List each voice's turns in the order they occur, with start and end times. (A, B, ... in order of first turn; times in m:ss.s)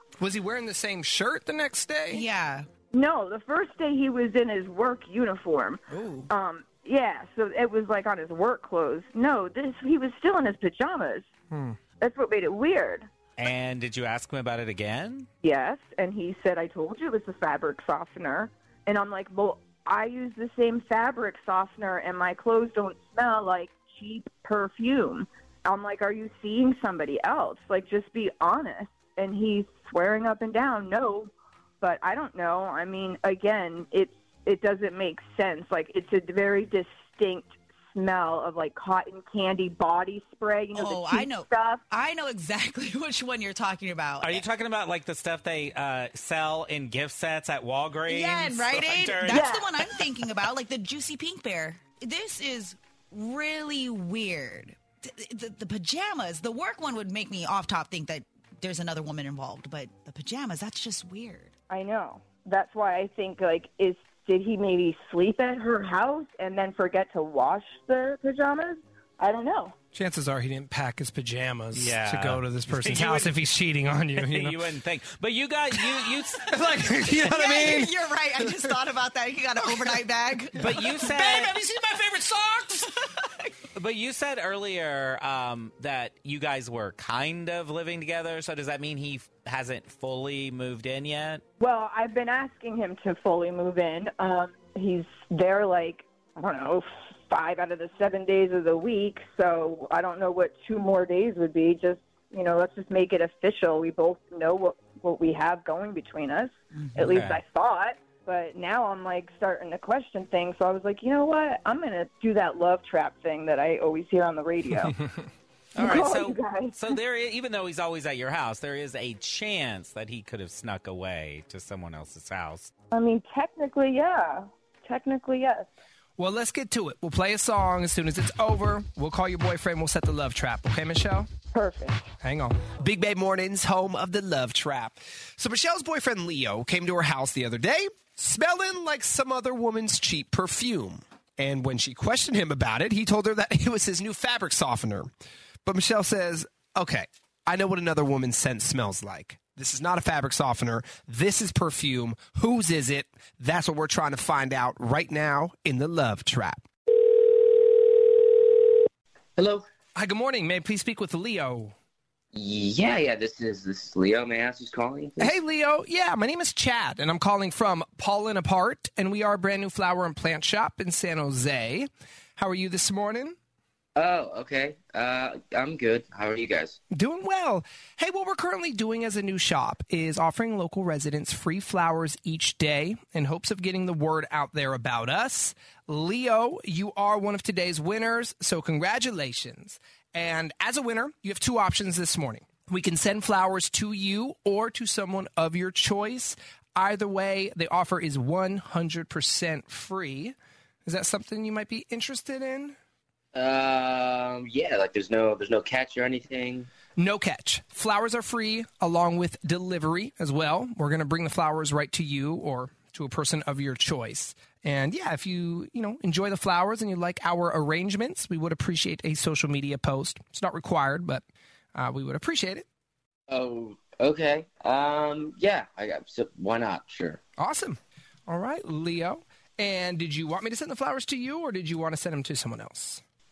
0:00.2-0:02.2 A
0:02.1-0:02.7 B
0:02.9-0:11.3 C
0:05.9-0:06.3 B
0:11.5-0:11.8 A
0:12.0-0:13.1 C
0:13.4-0:15.3 D
0:15.4-0:41.8 C
0:40.7-0:44.4 B
0:44.2-0:49.6 D
0:48.1-1:01.5 B
0:49.3-0:49.7 C
1:01.7-1:09.8 C
1:09.9-1:14.6 A
1:11.7-1:13.3 D
1:14.2-1:16.6 D
1:16.4-1:18.7 A
1:17.0-1:20.8 B
1:20.6-1:21.6 D
1:20.6-1:22.9 A
1:23.7-1:31.4 D
1:31.6-1:55.0 C
1:47.0-1:47.4 D
1:55.8-1:57.0 C
1:55.8-2:02.7 D
2:02.9-2:05.7 C
2:06.2-2:11.3 A
2:11.5-2:12.0 C
2:12.2-2:25.1 A
2:25.6-2:36.6 A
2:39.4-2:39.6 E
2:39.9-2:41.7 A
2:42.3-2:45.3 E
2:45.2-2:53.4 A
2:54.0-2:56.8 E
2:56.9-3:22.8 A
3:23.3-3:26.7 E
3:27.0-3:41.2 A
3:41.7-3:42.6 A
3:43.3-3:47.2 E
3:47.4-3:53.0 A